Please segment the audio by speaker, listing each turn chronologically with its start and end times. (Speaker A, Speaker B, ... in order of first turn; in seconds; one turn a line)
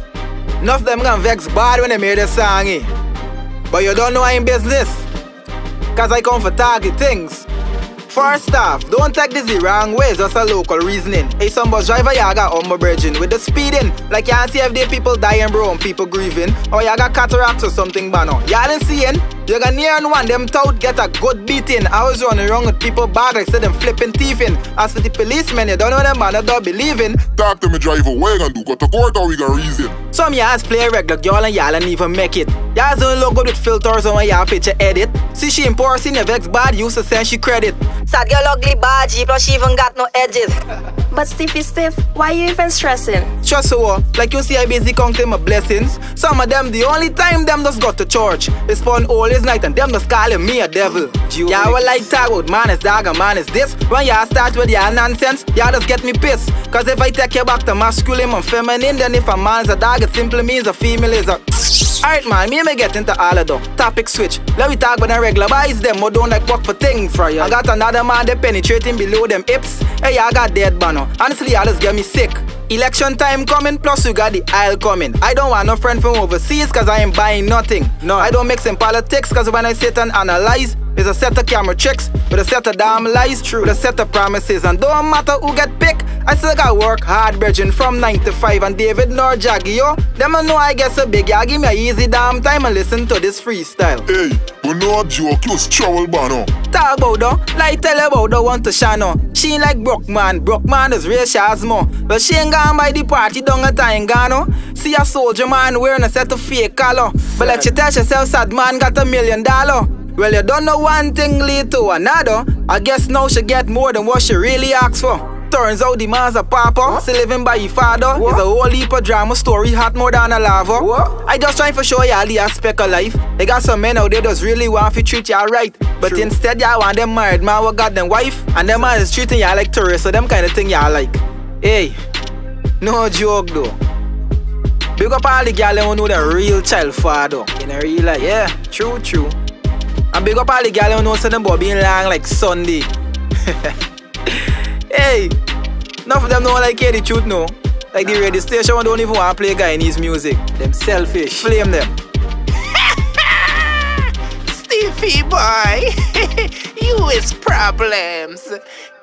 Speaker A: 0.6-2.9
Speaker A: 3.7-5.1
Speaker A: 5.9-7.5
Speaker A: 8.1-27.3
Speaker B: 27.3-29.9
Speaker A: 30.1-37.8
Speaker C: 38.1-40.5
Speaker D: 41.1-43.3
Speaker A: 43.4-94.0
Speaker C: 51.5-51.9
Speaker B: 94.1-96.5
Speaker A: 96.7-132.0
Speaker A: 132.8-133.8
Speaker A: 134.9-139.4
Speaker A: 140.1-142.9
Speaker A: 143.5-143.7
Speaker A: 144.3-145.4
Speaker A: 146.0-151.9
Speaker E: 152.7-158.6